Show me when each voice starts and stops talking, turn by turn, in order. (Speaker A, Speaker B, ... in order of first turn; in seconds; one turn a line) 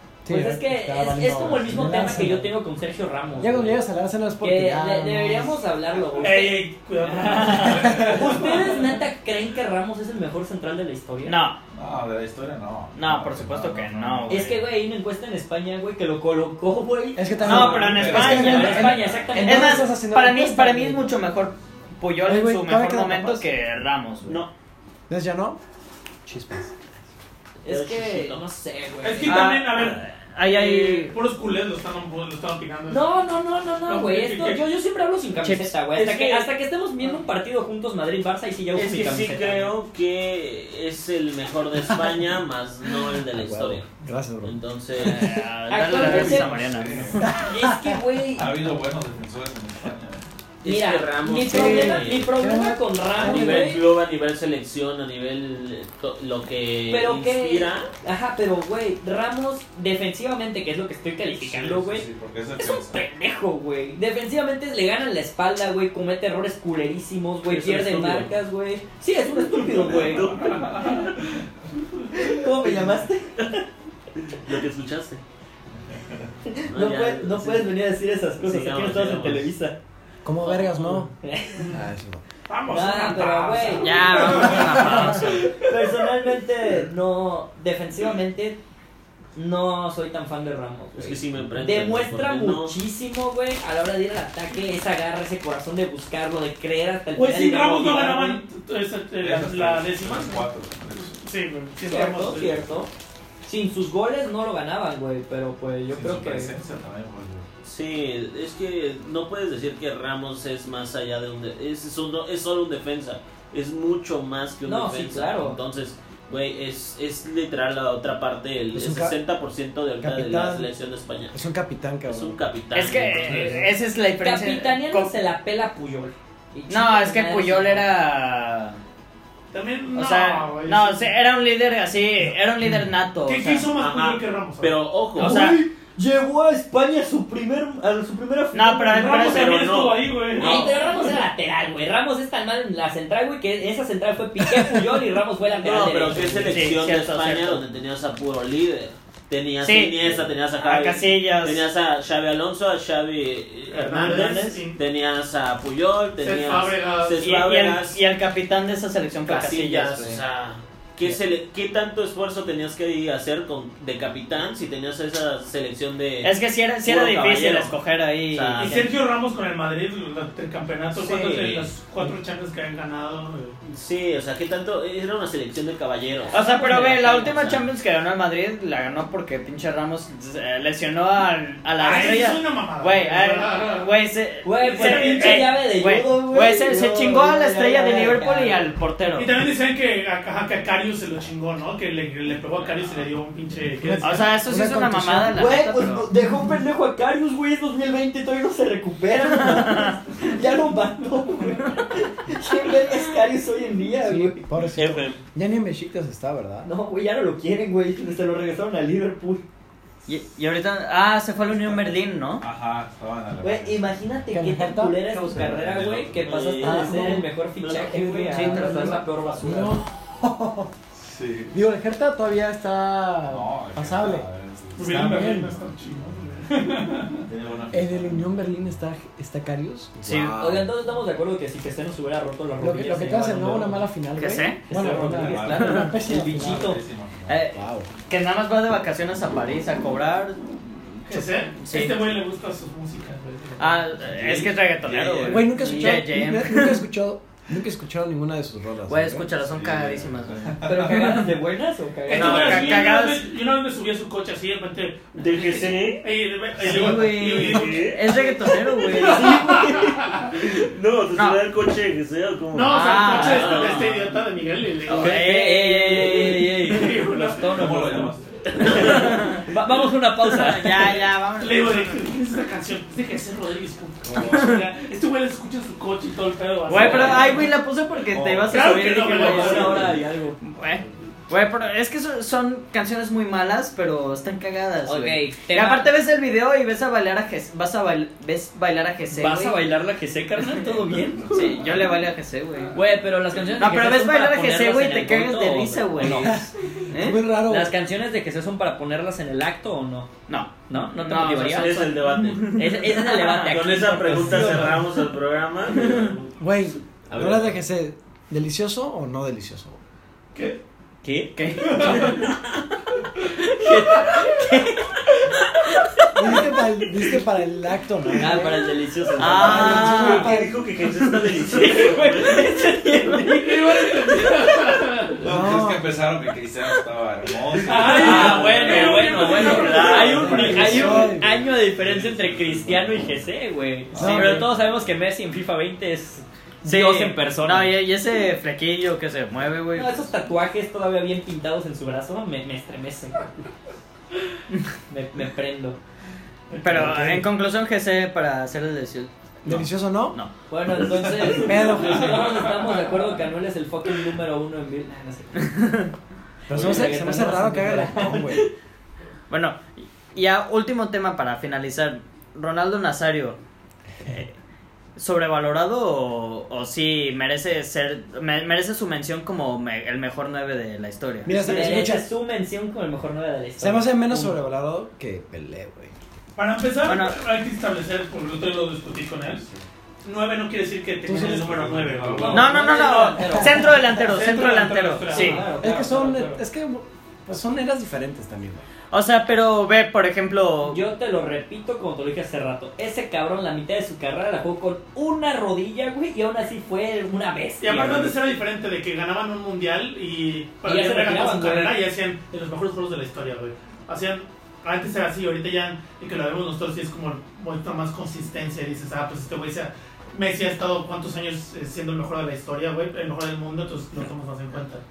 Speaker A: 0.2-2.5
Speaker B: 0.3-3.9
Speaker C: 1.4-2.1
Speaker C: 3.3-3.6
Speaker A: 3.4-5.6
Speaker B: 4.4-11.4
Speaker D: 6.1-8.9
Speaker A: 7.7-8.2
Speaker E: 11.2-11.6
Speaker C: 11.7-14.4
Speaker E: 12.9-14.7
Speaker B: 14.3-19.9
Speaker A: 17.1-21.2
Speaker C: 17.4-19.4
Speaker E: 17.4-24.5
Speaker A: 22.2-23.5
Speaker A: 25.1-25.6
Speaker A: 26.2-26.7
Speaker B: 27.6-29.4
Speaker F: 27.7-28.4
Speaker D: 29.0-33.1
Speaker E: 29.2-31.1
Speaker B: 32.9-39.7
Speaker D: 33.9-34.6
Speaker E: 35.4-36.5
Speaker F: 38.7-43.9
Speaker A: 43.1-45.5
Speaker F: 44.4-45.3
Speaker E: 45.0-47.3
Speaker B: 45.7-46.6
Speaker C: 45.8-47.3
Speaker A: 47.2-48.0
Speaker B: 47.4-48.5
Speaker C: 48.3-50.2
Speaker F: 50.6-52.3
Speaker B: 50.6-53.8
Speaker A: 51.5-53.7
Speaker F: 53.2-57.9
Speaker B: 56.9-71.1
Speaker C: 61.3-63.0
Speaker F: 67.5-68.3
Speaker C: 69.5-71.4
Speaker F: 69.8-71.0
Speaker B: 72.1-73.6
Speaker F: 74.2-75.2
Speaker C: 75.9-76.3
Speaker B: 76.4-79.8
Speaker F: 76.7-77.7
Speaker F: 78.4-79.5
Speaker A: 80.2-81.1
Speaker F: 80.5-80.8
Speaker B: 81.2-81.7
Speaker A: 81.7-82.2
Speaker D: 82.5-84.8
Speaker B: 82.7-88.6
Speaker E: 83.8-85.5
Speaker A: 84.7-85.2
Speaker B: 89.3-98.4
Speaker F: 90.9-92.8
Speaker D: 97.1-100.5
Speaker C: 99.2-101.2
Speaker D: 101.1-102.7
Speaker B: 101.8-102.9
Speaker B: 103.4-106.5
Speaker C: 105.9-107.5
Speaker F: 107.6-121.4
Speaker B: 114.6-115.6
Speaker A: 118.7-119.2
Speaker A: 120.0-120.7
Speaker A: 121.3-122.4
Speaker F: 122.0-123.7
Speaker E: 122.7-125.1
Speaker B: 124.2-127.9
Speaker E: 126.7-128.8
Speaker D: 129.5-131.2
Speaker E: 129.9-133.7
Speaker D: 133.2-134.8
Speaker F: 133.8-135.4
Speaker B: 135.2-139.2
Speaker E: 135.2-135.6
Speaker E: 138.5-139.7
Speaker D: 138.9-141.2
Speaker F: 139.1-140.9
Speaker B: 140.4-146.7
Speaker F: 145.5-158.0
Speaker E: 146.5-147.6
Speaker E: 149.6-151.7
Speaker D: 153.7-154.8
Speaker B: 154.0-154.4
Speaker D: 156.2-157.2
Speaker E: 157.2-160.2
Speaker F: 159.2-167.8
Speaker E: 166.2-168.8
Speaker F: 168.3-168.9
Speaker D: 168.6-173.6
Speaker F: 170.9-171.7
Speaker F: 173.7-177.6
Speaker E: 176.3-189.3
Speaker B: 176.3-177.3
Speaker D: 181.8-183.9
Speaker B: 184.4-188.6
Speaker D: 184.6-185.6
Speaker D: 189.1-194.4
Speaker C: 192.6-193.0
Speaker A: 193.8-195.6
Speaker E: 194.0-196.1
Speaker B: 195.3-204.4
Speaker E: 199.2-200.0
Speaker A: 204.0-206.7
Speaker F: 204.8-205.2
Speaker B: 206.6-209.4
Speaker E: 210.1-212.4
Speaker C: 212.4-213.8
Speaker B: 213.4-219.8
Speaker A: 214.3-215.6
Speaker C: 215.3-216.2
Speaker F: 216.0-219.3
Speaker A: 216.6-217.3
Speaker A: 218.0-220.7
Speaker C: 221.0-221.6
Speaker A: 221.5-225.6
Speaker C: 223.3-226.2
Speaker D: 224.7-227.2
Speaker C: 227.2-228.5
Speaker A: 227.7-230.1
Speaker C: 230.0-230.7
Speaker E: 230.0-230.4
Speaker B: 230.4-233.8
Speaker A: 232.6-236.7
Speaker E: 234.2-234.6
Speaker B: 234.7-236.8
Speaker C: 234.8-237.6
Speaker E: 237.3-242.1
Speaker A: 237.5-237.9
Speaker D: 241.1-243.9
Speaker E: 243.6-246.8
Speaker C: 244.1-245.5
Speaker A: 245.2-249.3
Speaker E: 248.9-251.2
Speaker C: 249.3-251.1
Speaker B: 250.6-252.7
Speaker D: 252.1-260.3
Speaker E: 252.1-253.2
Speaker F: 255.2-256.1
Speaker E: 256.6-259.7
Speaker F: 257.2-263.9
Speaker E: 261.1-261.4
Speaker D: 262.5-265.2
Speaker E: 262.7-264.0
Speaker E: 264.9-266.5
Speaker F: 264.9-265.2
Speaker B: 264.9-271.1
Speaker D: 266.1-267.6
Speaker C: 267.4-269.1
Speaker F: 268.6-269.1
Speaker E: 268.7-269.5
Speaker E: 270.2-271.9
Speaker D: 271.4-277.6
Speaker C: 274.1-274.4
Speaker E: 274.2-274.6
Speaker E: 276.7-279.9
Speaker B: 276.7-277.4
Speaker C: 278.0-278.6
Speaker D: 278.4-279.9
Speaker B: 278.9-280.4
Speaker E: 280.4-289.6
Speaker B: 284.9-285.9
Speaker B: 289.1-291.6
Speaker E: 291.3-292.8
Speaker B: 292.7-296.5
Speaker E: 293.6-297.2
Speaker A: 296.0-297.7
Speaker B: 297.4-300.1
Speaker E: 300.3-303.7
Speaker B: 300.7-301.9
Speaker F: 301.4-306.3
Speaker B: 302.5-304.8
Speaker D: 304.1-304.6
Speaker E: 305.8-306.1
Speaker A: 306.4-309.8
Speaker F: 307.1-307.6
Speaker B: 311.0-312.2
Speaker E: 311.3-312.2
Speaker D: 311.6-312.3
Speaker B: 313.3-316.4
Speaker A: 316.1-320.7
Speaker B: 318.1-320.0
Speaker E: 319.2-320.4
Speaker F: 319.5-322.6
Speaker B: 321.3-324.8
Speaker D: 323.2-325.3
Speaker C: 325.2-329.4
Speaker A: 325.2-325.9
Speaker D: 327.5-330.2
Speaker B: 327.6-337.8
Speaker F: 328.0-330.9
Speaker A: 330.1-331.4
Speaker C: 330.2-333.3
Speaker C: 333.9-334.8
Speaker A: 333.9-334.5
Speaker E: 334.0-334.5
Speaker E: 336.6-340.1
Speaker B: 339.7-343.3
Speaker B: 344.9-345.8
Speaker E: 346.6-349.1
Speaker A: 346.7-347.2
Speaker A: 349.4-350.2
Speaker B: 350.5-355.5
Speaker A: 351.2-352.3
Speaker C: 351.3-352.4
Speaker E: 355.4-355.9
Speaker A: 356.5-358.5
Speaker C: 356.5-357.0
Speaker B: 356.5-358.5
Speaker E: 357.0-357.4
Speaker E: 359.3-363.4
Speaker E: 364.0-364.3
Speaker E: 364.9-371.8
Speaker A: 371.2-372.1
Speaker B: 371.3-374.4
Speaker A: 373.6-375.9
Speaker D: 376.4-379.4
Speaker E: 376.8-377.2
Speaker C: 379.3-379.6
Speaker D: 380.0-385.5
Speaker A: 381.1-381.6
Speaker C: 381.1-382.5
Speaker B: 382.1-383.8
Speaker E: 382.3-385.4
Speaker B: 385.0-386.4
Speaker A: 385.6-388.6
Speaker E: 388.9-390.8
Speaker B: 390.6-398.1
Speaker D: 397.6-414.8
Speaker B: 400.6-401.8